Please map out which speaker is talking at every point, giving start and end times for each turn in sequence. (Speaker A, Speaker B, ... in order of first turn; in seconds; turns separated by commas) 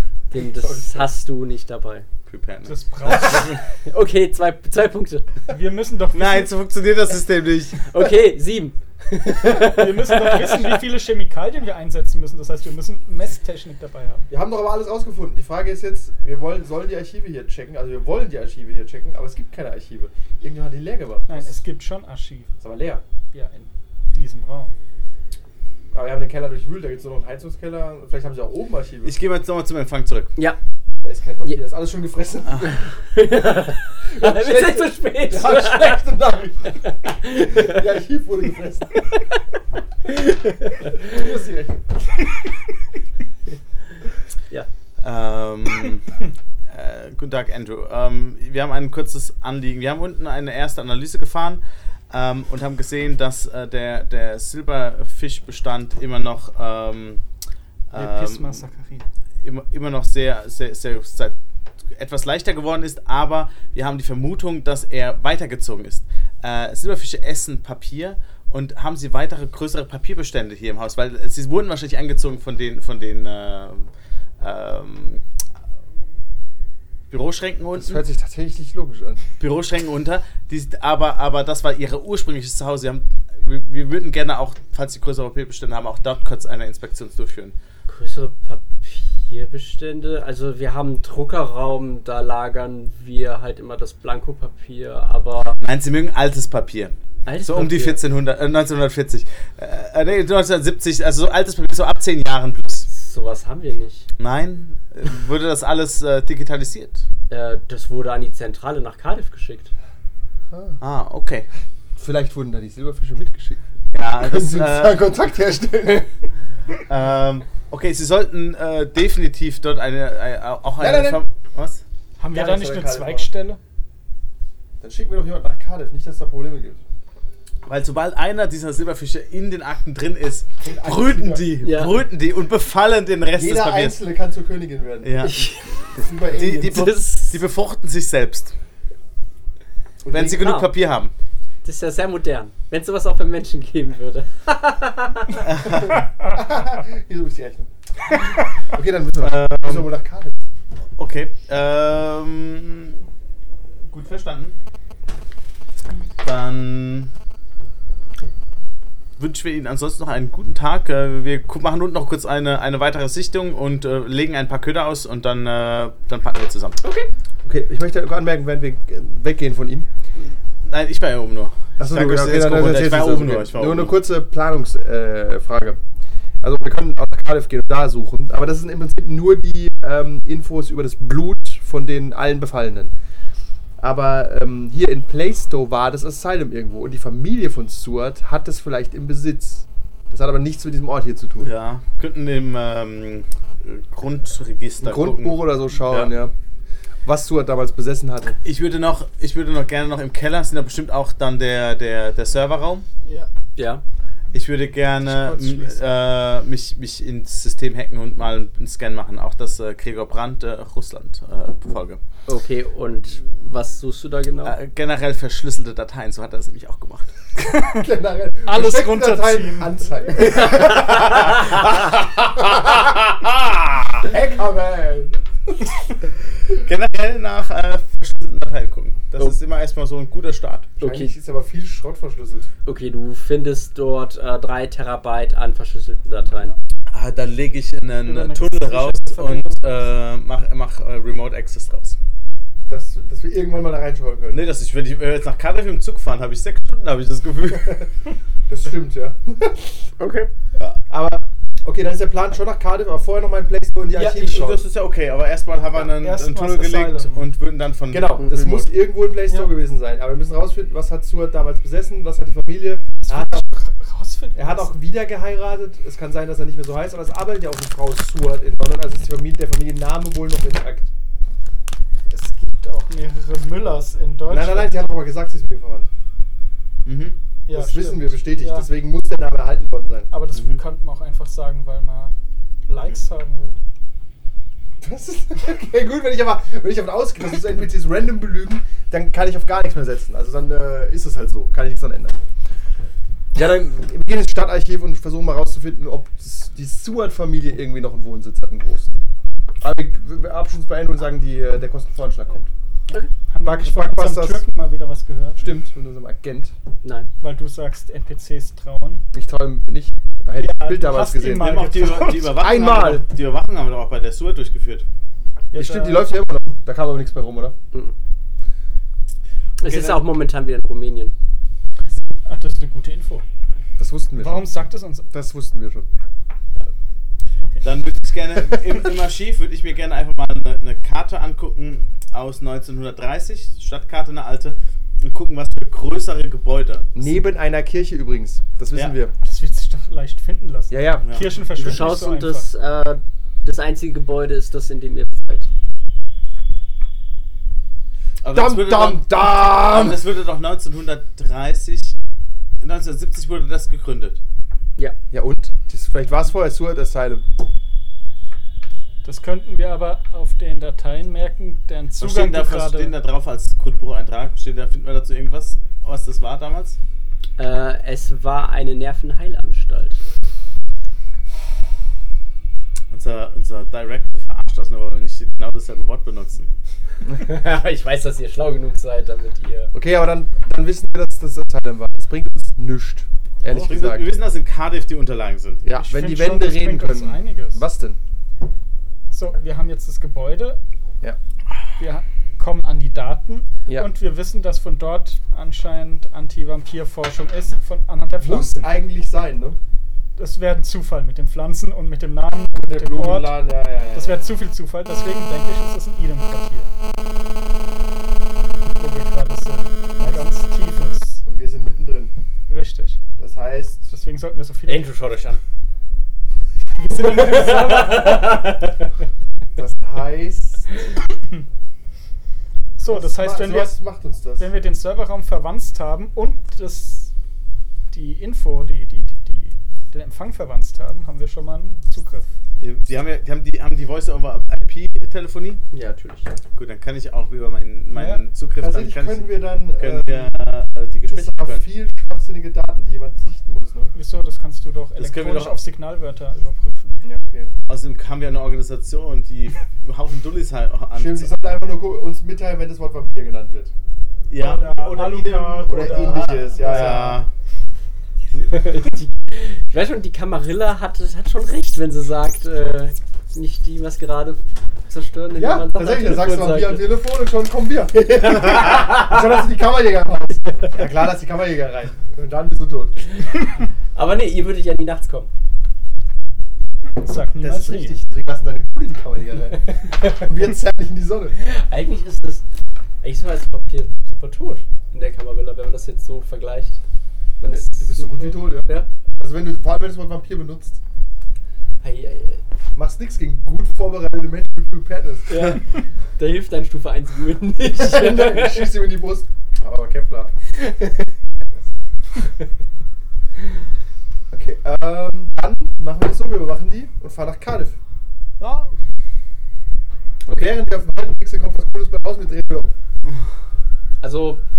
Speaker A: 0.3-2.0, Speaker B: 0.4-1.1, Speaker C: 2.3-3.6, Speaker D: 2.6-3.5, Speaker A: 3.9-5.3, Speaker D: 5.5-6.5, Speaker C: 6.1-7.9, Speaker A: 7.9-10.8, Speaker D: 9.5-14.3, Speaker B: 14.3-21.5, Speaker D: 21.3-22.5, Speaker B: 22.6-23.0, Speaker D: 23.3-24.7, Speaker B: 25.9-29.2, Speaker C: 29.0-30.3, Speaker B: 31.0-32.9, Speaker A: 33.1-36.0, Speaker B: 34.0-38.9, Speaker A: 37.2-37.7, Speaker A: 40.4-40.9, Speaker B: 40.9-41.9, Speaker C: 45.0-46.1, Speaker C: 46.7-57.2, Speaker C: 57.9-58.6, Speaker D: 57.9-59.1, Speaker C: 59.4-61.4, Speaker C: 61.9-73.9, Speaker C: 74.4-75.2, Speaker C: 77.1-78.0, Speaker B: 77.7-79.2, Speaker C: 79.4-87.5, Speaker A: 87.9-95.6, Speaker C: 95.6-102.9, Speaker A: 97.2-98.0, Speaker A: 102.9-104.1, Speaker C: 104.2-107.0, Speaker A: 107.3-109.7, Speaker B: 110.5-110.8, Speaker C: 110.8-111.5, Speaker B: 112.0-113.6, Speaker C: 113.9-115.1, Speaker B: 114.1-116.1, Speaker C: 116.9-121.8, Speaker B: 120.8-121.2, Speaker D: 122.2-123.6, Speaker B: 122.3-123.3, Speaker B: 124.8-126.8, Speaker C: 127.7-134.0, Speaker B: 130.6-131.6, Speaker A: 131.6-132.0, Speaker B: 133.3-135.3, Speaker C: 135.0-138.5, Speaker A: 135.2-137.4, Speaker B: 136.0-136.9, Speaker B: 140.0-140.6, Speaker C: 140.1-141.1, Speaker A: 140.2-140.7, Speaker A: 141.6-145.5, Speaker C: 145.4-146.0, Speaker B: 145.9-150.4, Speaker C: 149.2-149.9, Speaker C: 151.0-153.0, Speaker C: 153.9-154.6, Speaker C: 156.2-157.1, Speaker C: 159.2-166.8, Speaker A: 166.8-167.1, Speaker B: 167.4-169.9, Speaker C: 170.7-174.0, Speaker B: 171.8-175.8, Speaker B: 176.4-182.9, Speaker B: 183.8-191.5, Speaker C: 191.4-196.1, Speaker B: 194.8-196.3, Speaker B: 197.1-198.4, Speaker C: 198.4-202.8, Speaker D: 203.1-203.3, Speaker A: 203.6-203.8, Speaker C: 204.3-212.0, Speaker D: 205.0-205.8, Speaker A: 212.3-214.6, Speaker C: 214.4-217.1, Speaker D: 217.4-217.9, Speaker B: 217.6-221.2, Speaker D: 218.5-220.3, Speaker C: 220.5-224.1, Speaker B: 224.0-225.6, Speaker C: 226.5-230.7, Speaker A: 230.8-231.1, Speaker B: 230.8-232.5, Speaker A: 232.7-236.5, Speaker C: 236.9-242.0, Speaker D: 238.1-239.9, Speaker B: 242.7-244.4, Speaker C: 244.3-247.9, Speaker B: 247.6-247.9, Speaker B: 248.5-249.9, Speaker A: 250.0-250.3, Speaker B: 250.9-254.7, Speaker D: 253.9-254.5, Speaker C: 254.2-258.5, Speaker D: 255.9-257.3, Speaker B: 257.9-263.5, Speaker D: 263.1-264.7, Speaker B: 264.4-270.9, Speaker D: 272.1-274.8, Speaker B: 274.3-275.9, Speaker C: 276.9-277.1, Speaker D: 277.5-278.7, Speaker B: 277.5-280.1, Speaker D: 280.1-282.1, Speaker C: 280.3-280.6, Speaker D: 282.7-283.5, Speaker B: 284.8-292.2, Speaker B: 293.4-299.0, Speaker B: 299.6-302.5, Speaker D: 302.9-305.5, Speaker B: 303.4-304.4, Speaker B: 305.4-306.5, Speaker A: 306.8-307.1, Speaker D: 307.2-309.0, Speaker B: 309.1-311.7, Speaker D: 310.4-312.5, Speaker C: 311.4-314.9, Speaker B: 312.2-313.1, Speaker D: 315.5-316.1, Speaker B: 315.5-317.6, Speaker A: 319.6-321.1, Speaker C: 319.6-320.0, Speaker D: 322.3-323.2, Speaker B: 323.8-324.5, Speaker D: 324.2-325.1, Speaker B: 325.1-325.9, Speaker C: 327.6-336.9, Speaker B: 336.9-339.1, Speaker D: 339.2-342.5, Speaker B: 340.7-341.1, Speaker A: 341.6-345.5, Speaker C: 348.2-352.0, Speaker B: 348.3-350.1, Speaker C: 352.6-354.2, Speaker B: 355.1-357.2, Speaker D: 359.0-362.9, Speaker C: 362.0-366.8, Speaker A: 367.4-370.0, Speaker C: 372.9-376.5, Speaker A: 377.1-379.7, Speaker B: 379.7-384.1, Speaker C: 383.5-385.6, Speaker B: 385.6-388.0, Speaker D: 385.7-387.6, Speaker D: 389.1-390.6, Speaker D: 391.8-398.7, Speaker B: 398.2-399.6, Speaker D: 400.2-406.7, Speaker B: 402.6-404.3, Speaker D: 408.8-411.2, Speaker B: 410.0-410.3, Speaker B: 411.2-412.1, Speaker D: 412.5-413.0, Speaker B: 413.2-413.9, Speaker D: 413.9-414.9, Speaker A: 414.7-415.4, Speaker A: 416.8-418.9, Speaker D: 416.9-418.4, Speaker B: 419.6-420.7, Speaker D: 422.8-423.8, Speaker B: 422.9-424.5, Speaker D: 424.4-427.1, Speaker D: 427.9-432.3, Speaker C: 432.6-435.6, Speaker A: 435.7-436.4, Speaker C: 436.6-441.6, Speaker D: 437.9-438.2, Speaker B: 438.6-440.4, Speaker B: 441.1-443.9, Speaker D: 443.9-447.0, Speaker C: 445.0-445.6, Speaker B: 447.0-447.5, Speaker C: 447.7-451.4, Speaker B: 450.9-453.7, Speaker C: 454.3-457.3, Speaker D: 454.3-457.2, Speaker B: 455.7-457.2, Speaker A: 458.3-466.9, Speaker B: 465.3-473.0, Speaker A: 473.9-475.3, Speaker D: 476.9-477.9, Speaker B: 477.4-481.4, Speaker A: 479.6-480.2, Speaker A: 481.4-482.4, Speaker A: 483.0-486.8, Speaker A: 487.4-488.9, Speaker B: 487.4-490.8, Speaker A: 491.8-492.4, Speaker B: 492.8-495.5, Speaker A: 495.3-495.6, Speaker A: 496.2-498.7, Speaker B: 497.6-500.3, Speaker A: 500.6-501.1, Speaker B: 501.4-501.7, Speaker B: 504.3-507.8, Speaker C: 508.4-508.7, Speaker B: 510.3-512.7, Speaker A: 514.0-514.4